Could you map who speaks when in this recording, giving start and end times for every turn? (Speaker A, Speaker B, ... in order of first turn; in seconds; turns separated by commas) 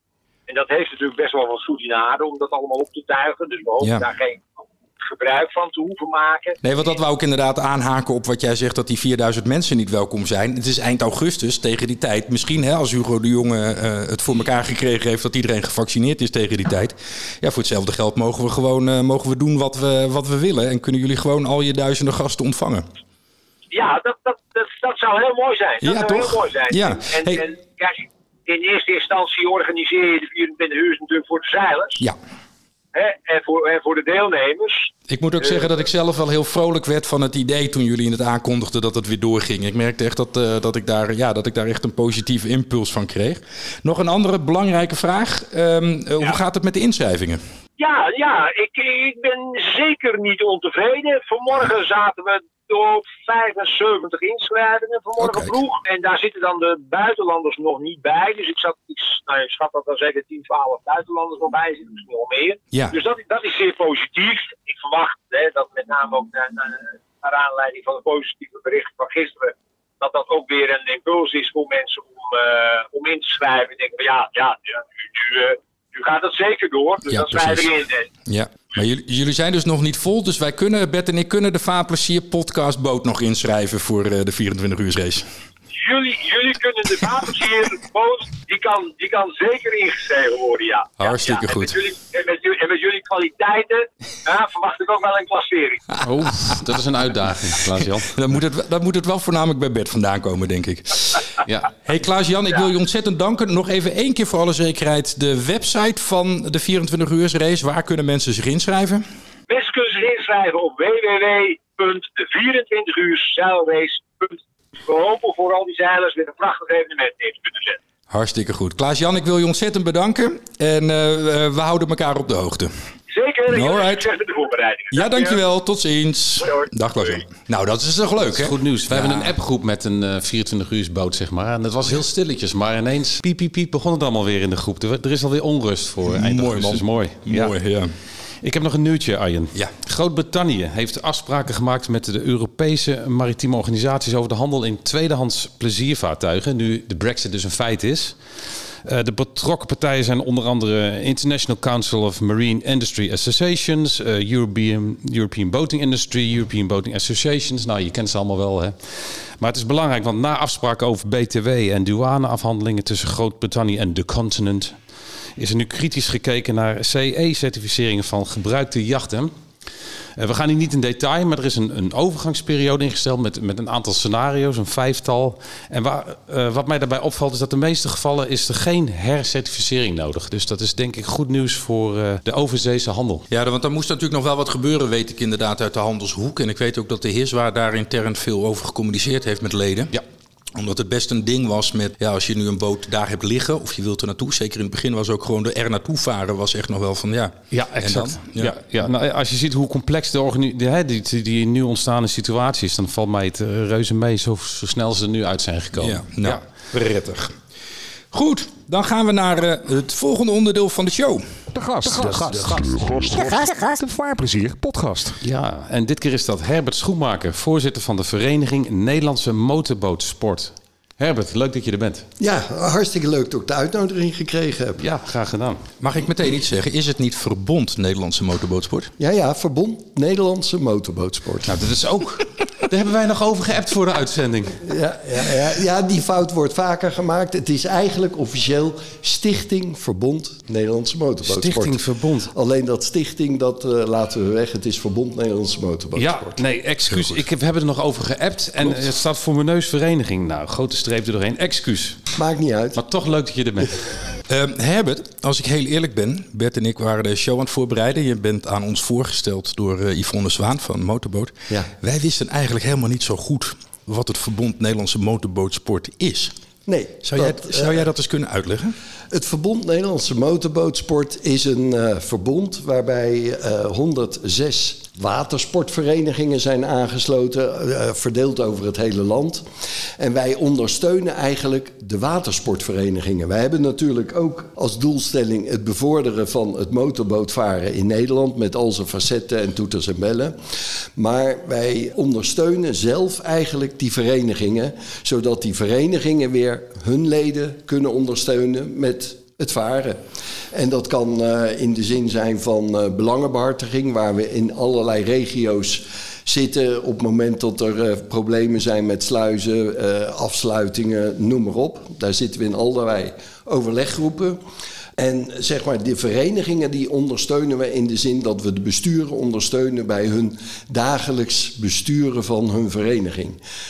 Speaker A: 0.5-6.6, Speaker B: 3.8-4.0, Speaker B: 6.6-22.8, Speaker A: 23.7-32.0, Speaker B: 25.8-27.4, Speaker A: 32.9-35.7, Speaker B: 35.1-47.4, Speaker A: 47.8-78.1, Speaker B: 55.2-55.6, Speaker B: 77.1-77.7, Speaker B: 78.2-85.2, Speaker A: 85.7-96.0, Speaker B: 91.0-91.8, Speaker C: 96.0-98.1, Speaker B: 98.1-101.2, Speaker C: 101.4-101.7, Speaker B: 101.8-109.0, Speaker A: 109.5-117.8, Speaker B: 118.1-122.7, Speaker A: 123.1-125.4, Speaker B: 123.5-124.0, Speaker B: 124.9-129.3, Speaker A: 126.4-127.2, Speaker C: 128.2-137.5, Speaker B: 136.1-137.9, Speaker C: 138.4-148.2, Speaker C: 148.8-164.8, Speaker C: 165.4-169.3, Speaker C: 170.2-183.2, Speaker B: 183.3-189.9, Speaker B: 190.5-198.5, Speaker C: 197.5-206.4, Speaker B: 205.8-207.3, Speaker B: 208.1-211.2, Speaker D: 211.5-215.2, Speaker C: 215.2-222.1, Speaker E: 222.2-224.8, Speaker C: 224.8-225.6, Speaker B: 225.8-228.9, Speaker E: 229.0-231.6, Speaker C: 231.4-234.7, Speaker E: 234.6-246.4, Speaker C: 241.2-242.3, Speaker C: 245.9-252.0, Speaker B: 246.9-247.2, Speaker E: 252.2-252.8, Speaker C: 252.7-253.8, Speaker B: 254.3-266.3, Speaker E: 266.6-267.9, Speaker B: 267.0-268.7, Speaker E: 269.1-279.4, Speaker E: 280.0-290.4, Speaker E: 290.9-300.0, Speaker E: 300.5-314.4, Speaker E: 315.0-323.4